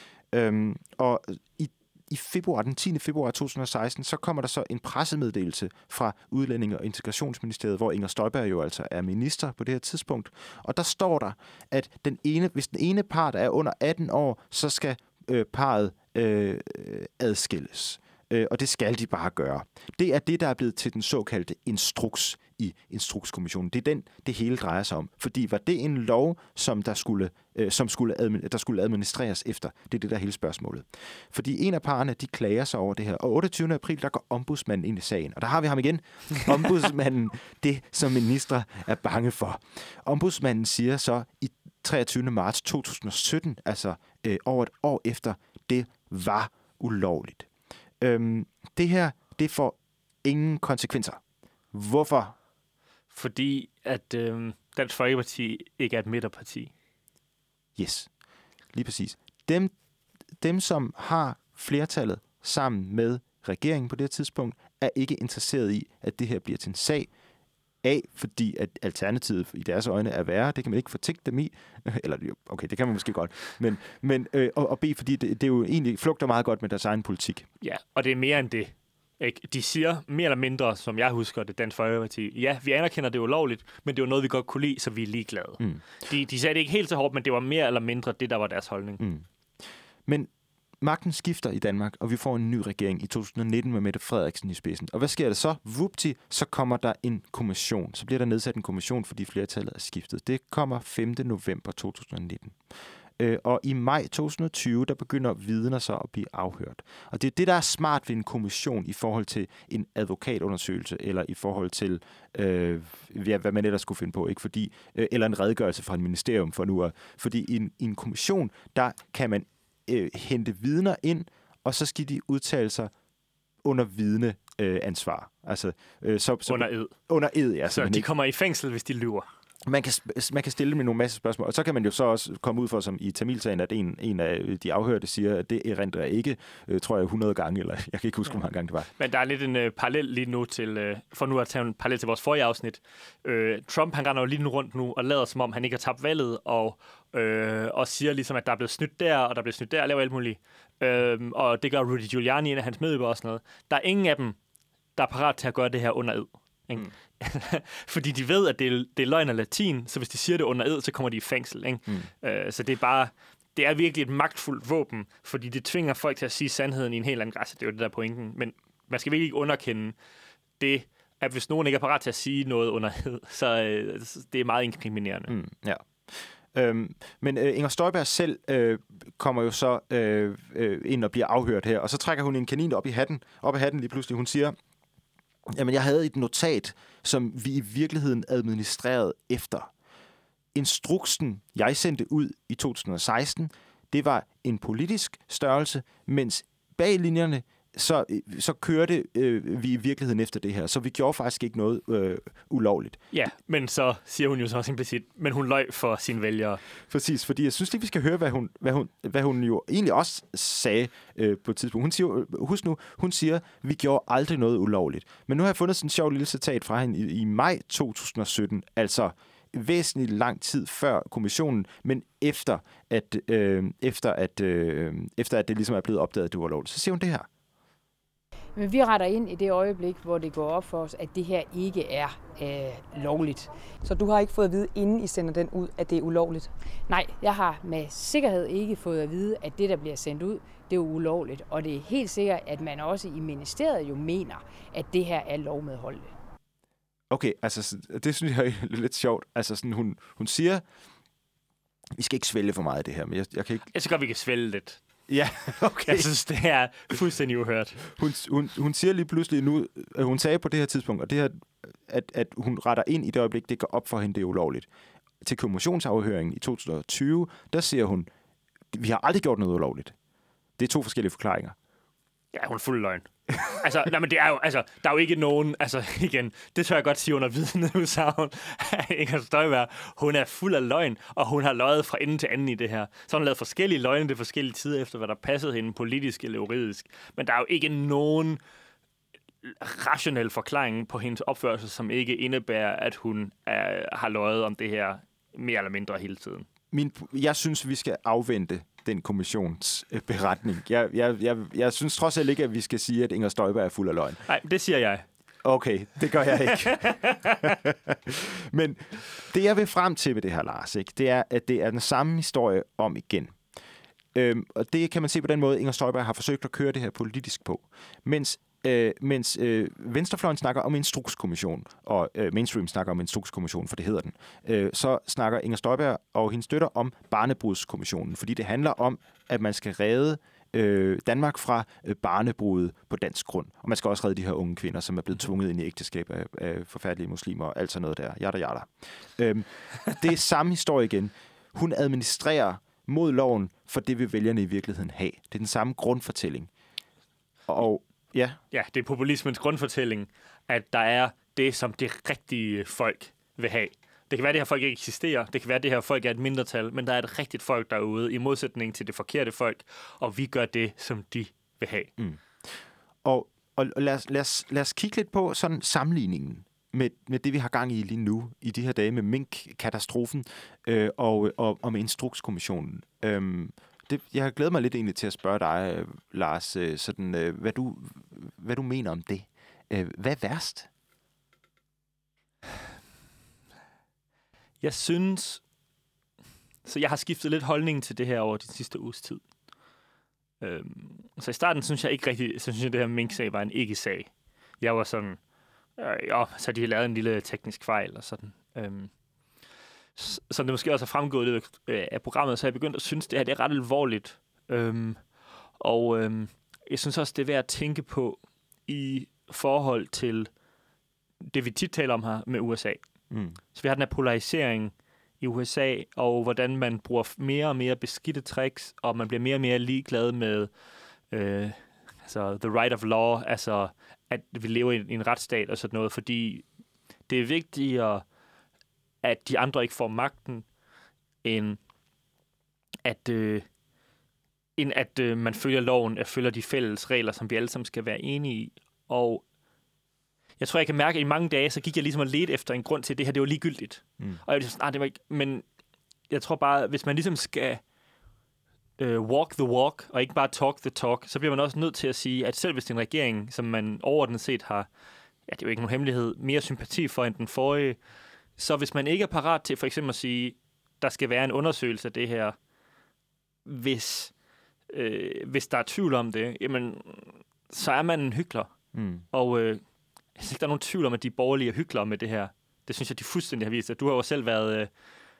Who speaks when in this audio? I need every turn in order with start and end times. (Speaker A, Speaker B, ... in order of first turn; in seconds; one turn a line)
Speaker A: 0.3-47.5
Speaker A: 48.0-51.2
Speaker A: 51.7-52.4
Speaker B: 53.1-56.7
Speaker A: 57.8-58.1
Speaker A: 58.7-59.7
Speaker A: 60.4-67.1
Speaker A: 67.8-77.5
Speaker B: 77.6-89.0
Speaker A: 89.0-89.2
Speaker A: 90.8-102.6
Speaker A: 103.2-122.9
Speaker A: 123.6-128.1
Speaker B: 126.5-126.9
Speaker B: 127.7-129.3
Speaker A: 129.7-138.9
Speaker B: 139.0-154.4
Speaker B: 155.0-170.0
Speaker B: 170.6-175.3
Speaker A: 175.3-184.6
Speaker A: 185.5-189.7
Speaker A: 190.5-203.0
Speaker B: 203.1-206.6
Speaker A: 206.9-227.3
Speaker C: 228.6-233.5
Speaker D: 233.8-236.5
Speaker C: 236.9-246.1
Speaker A: 247.1-250.6
Speaker A: 252.0-253.7
Speaker B: 253.7-254.8
Speaker A: 255.1-256.1
Speaker B: 255.8-257.8
Speaker A: 257.9-264.7
Speaker A: 265.2-268.1
Speaker A: 268.7-269.9
Speaker A: 270.6-271.6
Speaker B: 272.3-288.4
Speaker B: 289.4-296.5
Speaker A: 296.7-304.2
Speaker B: 304.3-305.1
Speaker A: 305.4-313.4
Speaker B: 306.9-307.4
Speaker A: 314.1-346.5
Speaker A: 347.5-348.4
Speaker B: 348.5-361.9
Speaker A: 362.0-362.5
Speaker A: 363.0-380.7
Speaker B: 384.6-385.4
Speaker B: 386.6-389.2
Speaker B: 390.4-394.1
Speaker B: 394.6-395.2
Speaker B: 395.8-398.9
Speaker B: 400.0-405.0
Speaker B: 405.6-410.3
Speaker B: 411.3-412.8
Speaker A: 413.1-413.4
Speaker B: 413.5-420.5
Speaker B: 421.1-426.5
Speaker B: 427.1-428.1
Speaker B: 429.0-430.5
Speaker B: 431.2-431.6
Speaker B: 432.8-433.4
Speaker B: 434.6-439.2
Speaker B: 440.4-445.4
Speaker B: 446.1-447.6
Speaker B: 448.8-454.7
Speaker B: 455.3-457.8
Speaker B: 458.4-462.4
Speaker B: 463.4-464.1
Speaker B: 464.7-468.5
Speaker A: 468.7-469.0
Speaker B: 469.1-469.6
Speaker B: 470.1-474.7